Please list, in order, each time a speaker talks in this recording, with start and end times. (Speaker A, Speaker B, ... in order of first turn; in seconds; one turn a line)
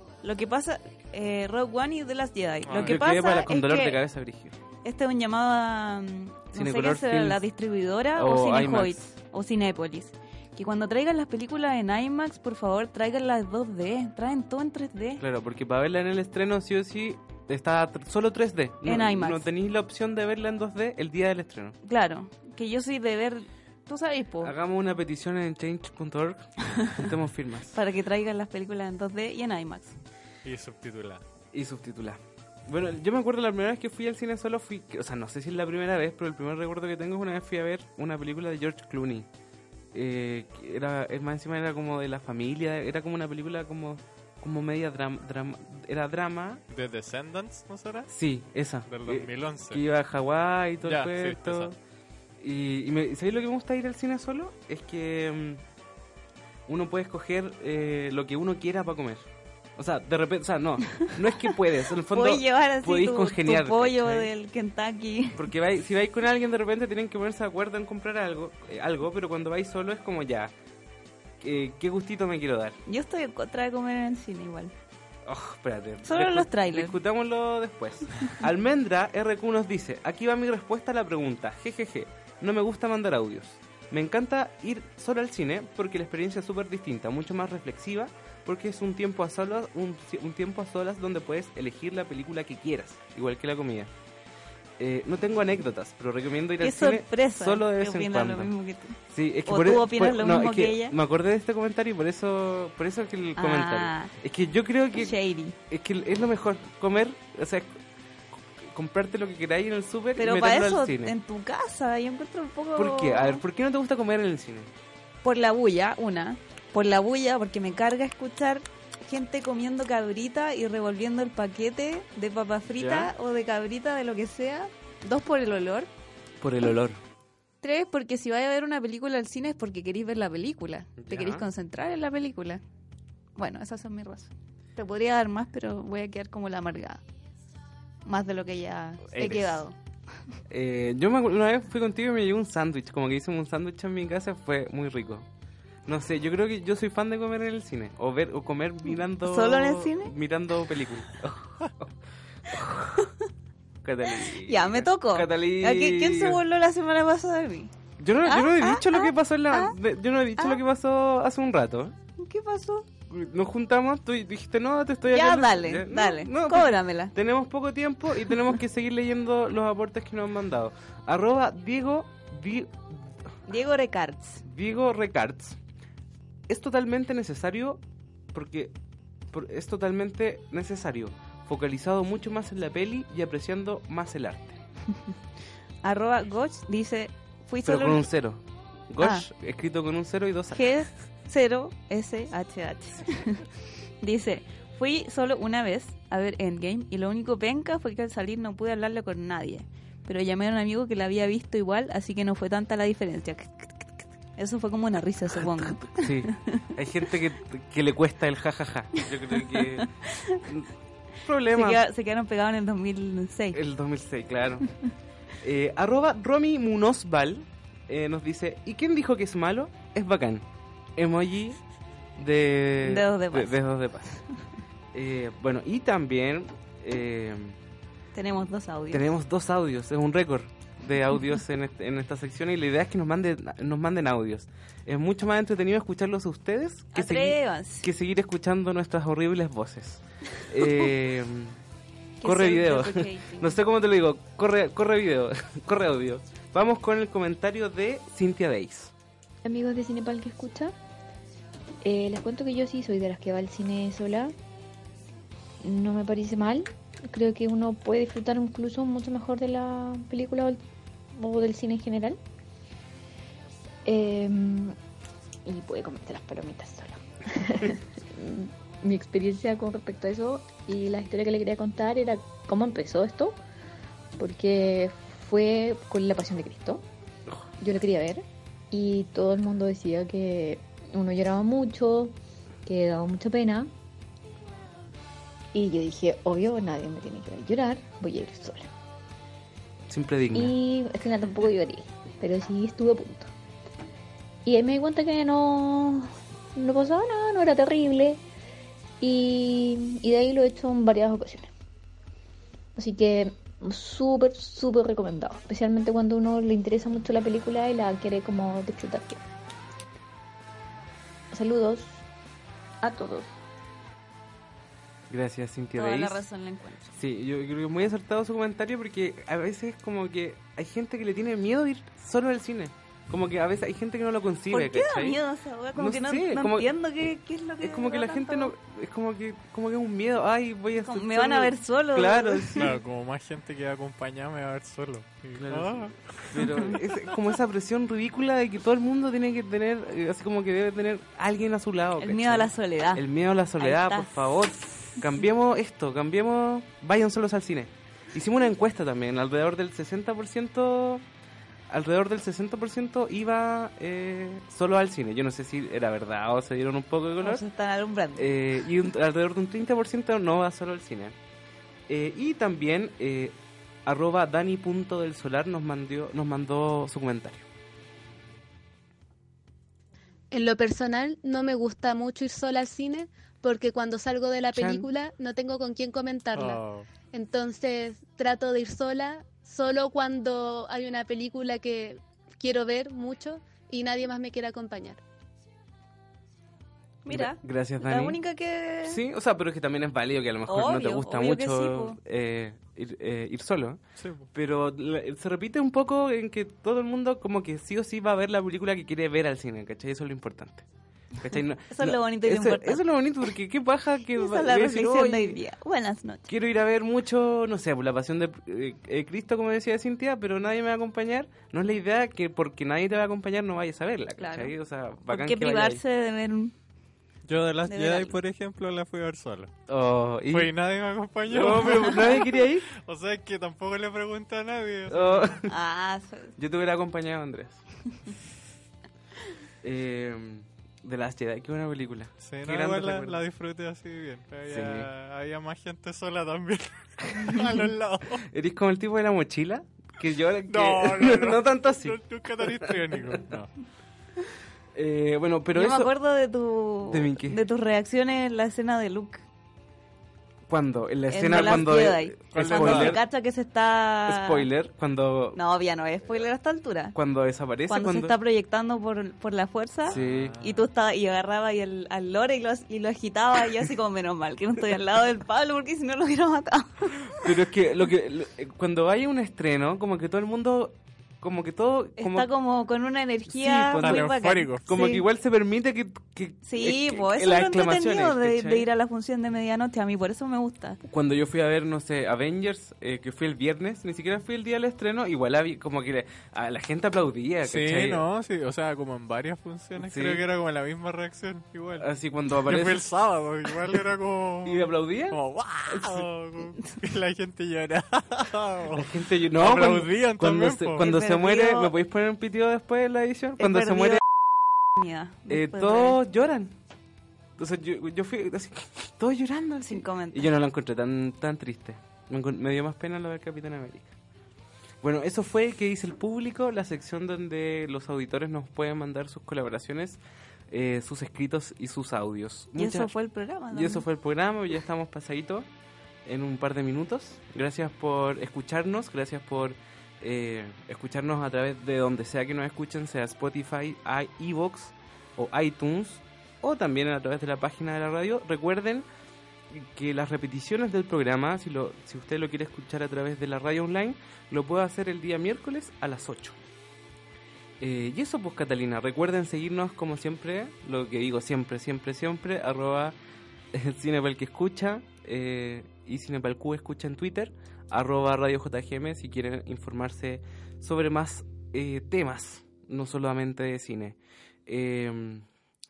Speaker A: 0.2-4.0
Speaker B: 2.6-3.0
Speaker C: 2.8-4.5
Speaker A: 4.8-15.2
Speaker C: 6.5-7.4
Speaker C: 8.1-9.0
Speaker C: 15.2-21.8
Speaker A: 18.8-19.5
Speaker A: 21.8-24.5
Speaker C: 24.4-27.8
Speaker A: 27.7-30.0
Speaker B: 30.4-31.2
Speaker C: 31.5-39.3
Speaker C: 39.9-46.6
Speaker B: 46.7-48.1
Speaker C: 48.1-51.7
Speaker B: 48.9-49.8
Speaker B: 50.8-51.7
Speaker C: 52.4-55.6
Speaker C: 56.7-64.3
Speaker A: 60.9-65.5
Speaker C: 65.3-70.5
Speaker C: 71.4-72.8
Speaker A: 72.8-74.7
Speaker C: 75.2-93.9
Speaker A: 76.0-77.0
Speaker C: 94.8-98.5
Speaker A: 96.6-99.0
Speaker C: 99.1-105.1
Speaker A: 99.5-100.9
Speaker A: 103.4-104.1
Speaker A: 105.0-105.5
Speaker C: 105.7-107.7
Speaker C: 108.6-111.1
Speaker A: 110.2-113.4
Speaker C: 112.8-114.7
Speaker A: 115.2-125.9
Speaker C: 122.8-123.1
Speaker C: 126.4-127.0
Speaker A: 127.6-132.6
Speaker C: 131.0-131.4
Speaker A: 133.3-137.0
Speaker A: 138.0-139.7
Speaker C: 139.1-139.6
Speaker C: 140.5-145.3
Speaker C: 145.8-151.9
Speaker A: 148.9-150.1
Speaker C: 152.5-153.0
Speaker C: 153.8-156.4
Speaker A: 154.4-157.7
Speaker C: 158.0-161.9
Speaker A: 158.2-159.7
Speaker A: 162.2-162.9
Speaker C: 163.1-173.1
Speaker A: 165.1-167.1
Speaker A: 173.5-174.4
Speaker C: 174.4-175.6
Speaker C: 176.5-178.7
Speaker C: 179.3-184.6
Speaker A: 185.8-188.1
Speaker C: 187.6-190.8
Speaker A: 189.0-189.2
Speaker A: 190.5-193.4
Speaker A: 194.0-206.7
Speaker C: 205.4-209.9
Speaker A: 209.3-210.4
Speaker C: 211.2-211.8
Speaker A: 211.5-213.6
Speaker C: 213.5-214.7
Speaker C: 215.4-221.6
Speaker C: 222.2-224.2
Speaker A: 222.8-223.6
Speaker C: 224.9-227.6
Speaker A: 228.1-229.1
Speaker C: 228.9-241.6
Speaker A: 236.9-237.9
Speaker A: 242.2-243.6
Speaker C: 242.2-248.9
Speaker D: 249.4-250.7
Speaker D: 251.8-254.3
Speaker D: 255.6-260.6
Speaker D: 261.1-262.2
Speaker D: 263.8-264.8
Speaker D: 265.4-273.4
Speaker D: 274.2-276.8
Speaker D: 277.6-283.7
Speaker D: 285.5-288.7
Speaker C: 289.9-290.5
Speaker D: 290.3-293.3
Speaker D: 294.4-298.2
Speaker D: 299.0-301.5
Speaker D: 302.8-309.2
Speaker D: 311.3-312.0
Speaker D: 312.8-313.3
Speaker C: 315.1-316.2
Speaker A: 315.8-316.9
Speaker C: 316.9-325.2
Speaker A: 324.5-328.5
Speaker C: 325.7-326.7
Speaker C: 327.6-332.7
Speaker A: 330.8-332.7
Speaker B: 332.6-336.4
Speaker C: 335.3-351.0
Speaker A: 336.3-336.8
Speaker A: 342.0-343.0
Speaker A: 343.6-344.1
Speaker C: 351.7-357.4
Speaker A: 357.2-358.3
Speaker C: 358.1-361.1
Speaker C: 361.9-367.4
Speaker E: 370.3-376.6
Speaker C: 374.5-374.9
Speaker B: 376.3-376.9
Speaker E: 377.1-385.0
Speaker A: 387.0-389.0
Speaker C: 387.1-388.2
Speaker C: 388.8-393.8
Speaker A: 390.4-392.0
Speaker B: 394.0-394.3
Speaker C: 394.3-400.6
Speaker C: 401.2-405.4
Speaker A: 401.7-402.8
Speaker A: 404.2-406.2
Speaker C: 406.3-415.8
Speaker A: 414.2-414.5
Speaker A: 415.1-416.5
Speaker B: 417.3-419.5
Speaker A: 417.7-418.1
Speaker C: 419.7-420.5
Speaker B: 420.3-425.4
Speaker C: 421.3-422.7
Speaker C: 424.9-425.5
Speaker A: 425.5-426.3
Speaker C: 426.4-427.6
Speaker C: 429.6-433.2
Speaker B: 432.2-438.2
Speaker C: 434.5-434.9
Speaker C: 438.2-443.2
Speaker B: 440.5-443.5
Speaker C: 444.7-445.9
Speaker A: 445.5-449.2
Speaker C: 446.9-447.4
Speaker C: 450.5-453.0
Speaker A: 451.1-454.4
Speaker B: 452.3-452.9
Speaker C: 454.1-455.4
Speaker A: 455.3-456.9
Speaker C: 456.9-458.1
Speaker A: 457.7-467.3
Speaker C: 459.9-460.4
Speaker B: 459.9-460.6
Speaker C: 467.0-472.3
Speaker A: 472.0-475.0
Speaker C: 473.2-478.7
Speaker B: 473.8-474.6
Speaker A: 476.4-480.8
Speaker C: 480.8-488.0
Speaker B: 487.4-491.9
Speaker C: 489.8-490.2
Speaker C: 491.8-492.9
Speaker B: 492.4-500.9
Speaker C: 494.4-496.1
Speaker C: 498.7-504.0
Speaker A: 500.8-501.7
Speaker A: 503.4-504.0
Speaker A: 504.8-506.0
Speaker C: 505.3-506.5
Speaker C: 507.4-514.0
Speaker A: 509.6-510.3
Speaker C: 514.8-522.9
Speaker A: 522.6-523.9
Speaker C: 523.5-525.5
Speaker C: 526.0-538.9
Speaker C: 539.5-546.4
Speaker C: 547.6-553.0
Speaker C: 553.5-565.2